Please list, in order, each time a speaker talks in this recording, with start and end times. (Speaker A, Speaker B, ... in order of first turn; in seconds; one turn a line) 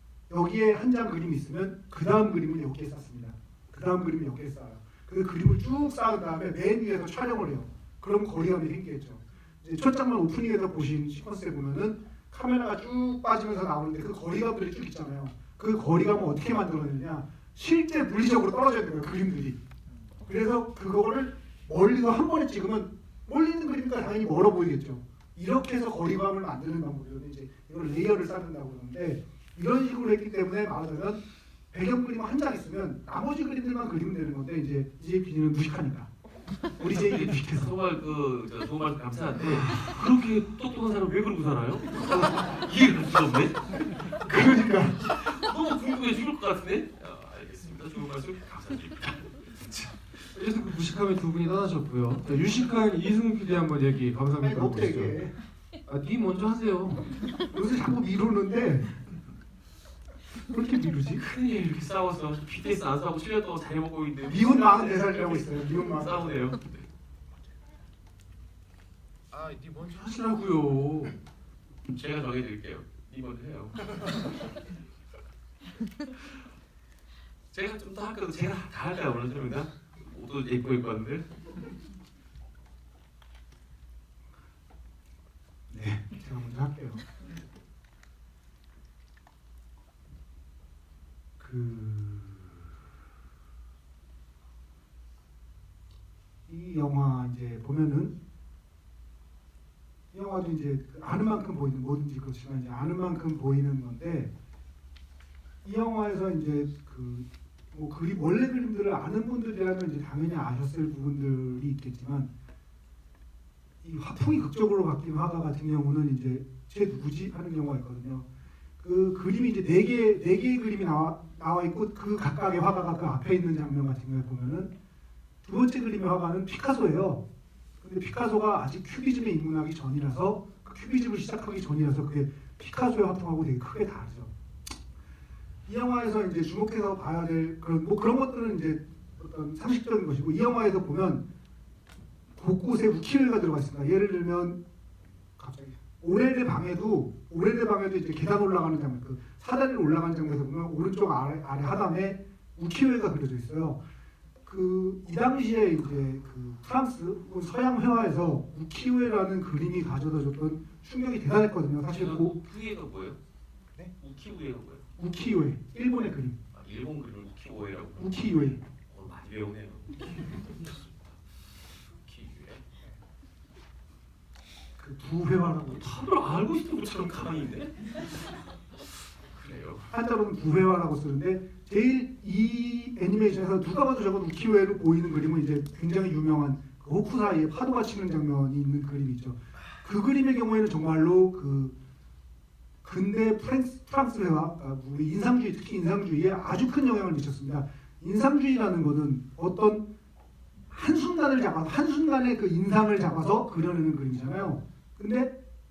Speaker A: 0.3-19.6
Speaker A: 20.3-36.1
Speaker A: 36.8-37.7
Speaker B: 36.8-44.2
Speaker A: 44.3-45.0
Speaker B: 45.0-49.9
Speaker C: 50.3-55.3
Speaker A: 54.4-55.3
Speaker C: 55.9-57.1
Speaker A: 57.4-58.9
Speaker C: 60.5-61.2
Speaker B: 60.9-66.9
Speaker A: 64.3-66.3
Speaker C: 69.4-71.2
Speaker B: 71.9-73.8
Speaker B: 77.5-81.3
Speaker A: 85.7-87.0
Speaker A: 91.4-92.7
Speaker A: 96.5-98.1
Speaker A: 100.1-104.3
Speaker A: 105.6-112.3
Speaker A: 113.8-118.3
Speaker A: 118.8-124.7
Speaker A: 125.4-127.2
Speaker A: 127.8-134.3
Speaker A: 135.7-141.2
Speaker A: 142.4-144.6
Speaker A: 145.4-153.8
Speaker A: 154.4-162.3
Speaker B: 161.9-163.2
Speaker B: 164.0-164.9
Speaker A: 165.0-166.4
Speaker B: 166.5-172.6
Speaker A: 168.0-168.6
Speaker A: 174.8-175.8
Speaker B: 175.7-179.9
Speaker A: 179.9-191.8
Speaker A: 192.8-199.8
Speaker A: 200.7-205.3